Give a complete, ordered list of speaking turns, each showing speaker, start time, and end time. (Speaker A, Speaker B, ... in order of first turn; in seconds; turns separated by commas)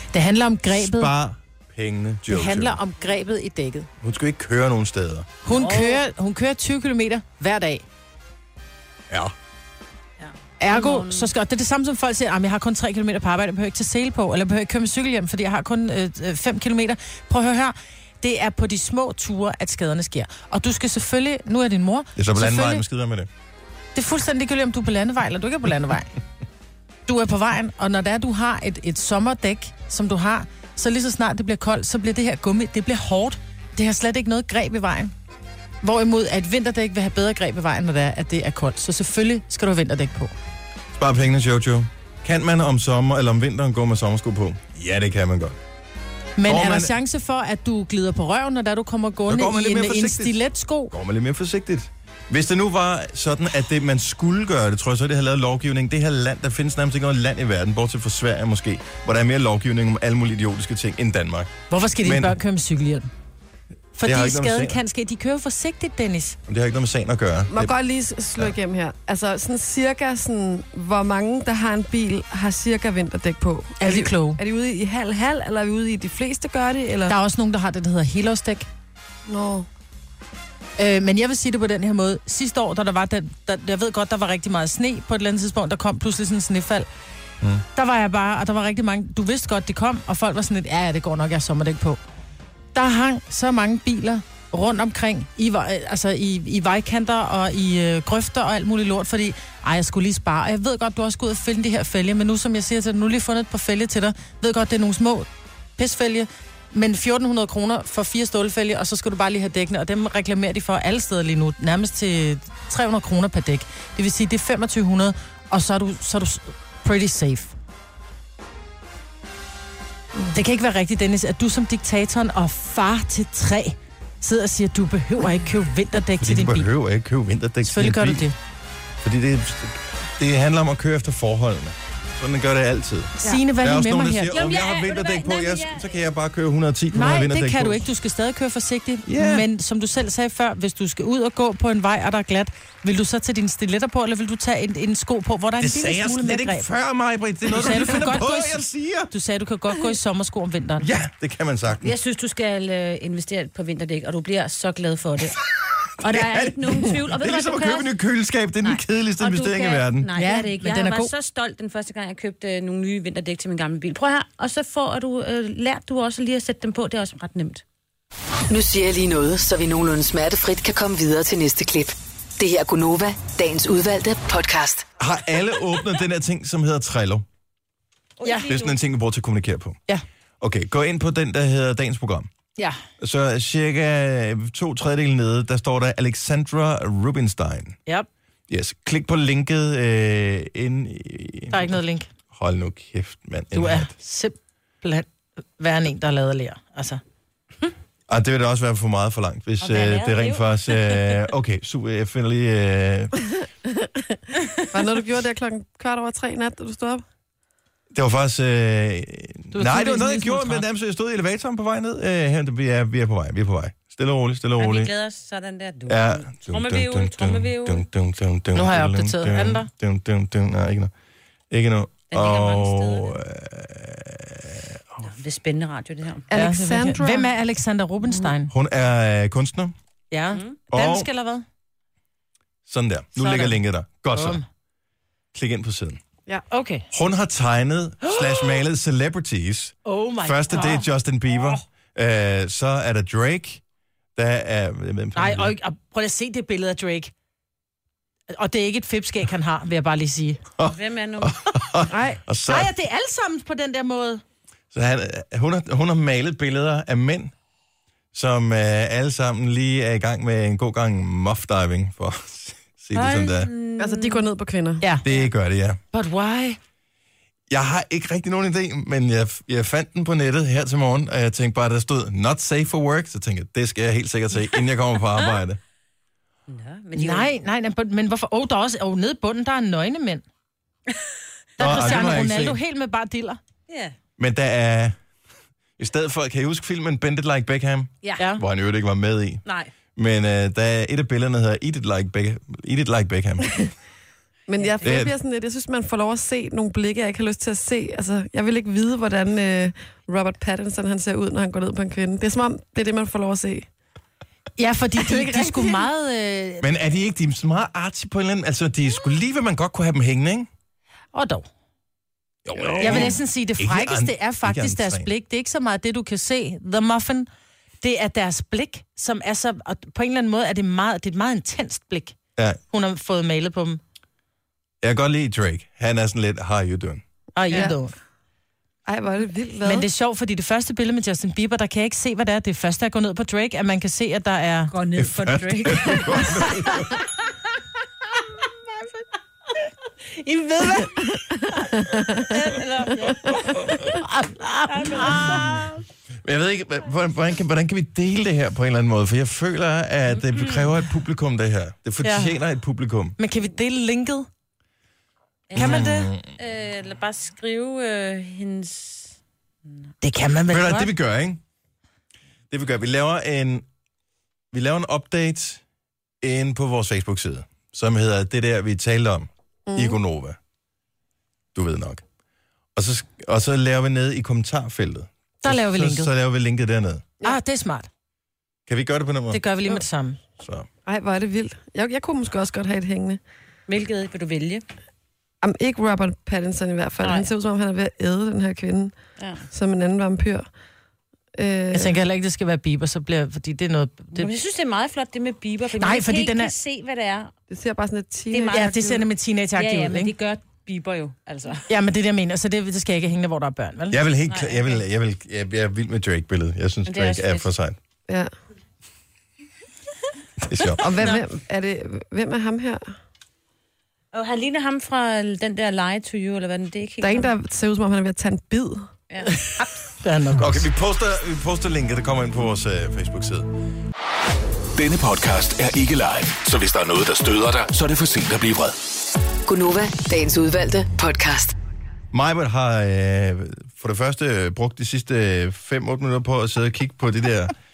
Speaker A: 0.1-1.1, Speaker B: 0.7-2.8, Speaker A: 2.3-3.9, Speaker B: 4.0-5.3, Speaker A: 5.5-7.8, Speaker C: 5.5-6.0, Speaker C: 10.2-11.3, Speaker A: 10.6-22.8, Speaker B: 22.2-23.3, Speaker A: 23.9-26.1, Speaker A: 27.1-35.1, Speaker A: 35.8-40.3, Speaker B: 40.9-45.6, Speaker A: 46.4-50.9, Speaker B: 46.5-46.9, Speaker B: 49.3-50.4, Speaker B: 50.9-61.5, Speaker A: 61.7-63.1, Speaker B: 62.0-62.4, Speaker A: 64.0-66.4, Speaker B: 64.0-64.8, Speaker B: 66.5-67.7, Speaker D: 67.5-77.2, Speaker A: 73.8-74.4, Speaker A: 77.1-78.7, Speaker D: 79.3-79.7, Speaker A: 80.8-86.9, Speaker A: 87.7-92.0, Speaker A: 92.7-117.5, Speaker A: 120.3-126.7, Speaker B: 126.2-128.3, Speaker A: 127.6-128.4, Speaker B: 129.0-137.9, Speaker A: 133.2-134.4, Speaker C: 134.3-135.9, Speaker A: 136.9-146.7, Speaker B: 139.1-139.5, Speaker B: 145.6-149.1, Speaker A: 147.4-150.9, Speaker B: 150.8-151.9, Speaker C: 151.8-155.4, Speaker C: 156.0-157.9, Speaker B: 156.0-160.1, Speaker C: 158.6-167.6, Speaker A: 160.2-161.1, Speaker E: 168.5-174.8, Speaker B: 175.0-177.3, Speaker C: 178.2-178.8, Speaker A: 178.2-178.5, Speaker B: 178.5-179.8, Speaker B: 180.4-182.3, Speaker B: 183.0-187.8, Speaker B: 188.5-191.8, Speaker A: 191.5-192.1, Speaker B: 192.3-193.9, Speaker A: 193.5-197.0, Speaker B: 198.1-203.2, Speaker C: 199.6-201.2, Speaker D: 203.7-207.0, Speaker B: 207.9-214.9, Speaker A: 209.5-210.7, Speaker C: 214.6-217.8, Speaker B: 215.9-220.9, Speaker A: 218.5-219.7, Speaker B: 221.5-224.8, Speaker C: 222.1-223.2, Speaker C: 225.0-226.3, Speaker D: 226.3-227.3, Speaker A: 226.3-228.5, Speaker B: 228.5-229.7, Speaker A: 230.1-231.5, Speaker B: 230.7-231.1, Speaker B: 232.7-234.4, Speaker A: 233.2-233.6, Speaker A: 234.1-234.5, Speaker B: 235.3-236.0, Speaker A: 236.5-236.9, Speaker B: 236.9-243.6, Speaker A: 238.0-238.6, Speaker A: 239.9-241.6, Speaker C: 240.5-240.8, Speaker B: 244.2-245.5, Speaker A: 245.2-247.1, Speaker A: 248.3-250.4, Speaker B: 250.6-252.7, Speaker C: 250.7-251.4, Speaker D: 251.9-252.2, Speaker A: 252.5-254.2, Speaker B: 254.7-257.3, Speaker B: 258.1-263.5, Speaker C: 262.9-264.3, Speaker D: 263.8-264.9, Speaker B: 265.0-265.8, Speaker A: 265.9-266.6, Speaker B: 267.5-275.6, Speaker C: 276.5-277.3, Speaker A: 276.9-280.2, Speaker A: 281.6-283.4, Speaker B: 281.6-282.6, Speaker C: 281.6-282.4, Speaker C: 283.7-283.9, Speaker B: 284.2-285.0, Speaker B: 285.8-289.4, Speaker A: 288.2-288.4, Speaker C: 289.4-289.7, Speaker B: 290.0-293.6, Speaker D: 294.5-303.7, Speaker B: 294.8-295.1, Speaker A: 304.6-306.7, Speaker D: 305.0-305.9, Speaker B: 306.6-310.5, Speaker A: 311.1-311.5, Speaker B: 312.4-315.1, Speaker D: 312.6-313.1, Speaker A: 312.8-317.3, Speaker A: 317.8-322.2, Speaker A: 322.7-323.8, Speaker B: 324.8-327.0, Speaker A: 327.4-327.9, Speaker D: 327.5-327.8, Speaker D: 328.9-329.9, Speaker A: 329.6-334.7, Speaker C: 334.7-336.5, Speaker B: 335.0-336.9, Speaker A: 340.1-341.8, Speaker D: 341.8-342.3, Speaker C: 342.3-343.6, Speaker B: 343.6-343.9, Speaker A: 343.7-345.7, Speaker C: 344.7-345.8, Speaker B: 345.3-345.6, Speaker B: 346.2-353.2, Speaker C: 350.3-350.6, Speaker A: 352.0-352.4, Speaker A: 353.2-354.3, Speaker C: 355.5-359.1, Speaker A: 355.6-356.1, Speaker B: 355.6-356.3, Speaker A: 360.0-360.9, Speaker B: 360.5-361.4, Speaker B: 362.5-363.7, Speaker B: 364.5-365.6, Speaker B: 366.2-370.4, Speaker D: 369.7-370.0, Speaker B: 371.6-372.0, Speaker B: 372.8-377.1, Speaker A: 375.4-376.1, Speaker A: 377.2-377.9, Speaker B: 378.7-379.4, Speaker A: 379.3-380.2, Speaker B: 380.4-380.7, Speaker D: 380.9-383.2, Speaker C: 383.7-384.6, Speaker D: 385.4-389.0, Speaker C: 387.0-387.3, Speaker C: 389.2-389.4, Speaker D: 389.5-390.5, Speaker D: 391.4-392.0, Speaker A: 391.7-394.3, Speaker C: 394.1-397.3, Speaker A: 395.8-396.5, Speaker D: 397.5-399.1, Speaker C: 398.3-401.7, Speaker A: 398.5-400.1, Speaker A: 401.7-404.0, Speaker B: 403.9-407.8, Speaker C: 404.3-404.8, Speaker C: 406.9-407.5, Speaker B: 410.4-410.9, Speaker D: 410.8-412.9, Speaker C: 411.0-411.2, Speaker C: 414.1-417.3, Speaker D: 417.0-418.9, Speaker C: 419.1-419.9, Speaker A: 419.5-420.7, Speaker B: 420.4-423.5, Speaker F: 424.8-428.8, Speaker E: 429.5-431.6, Speaker B: 432.1-437.5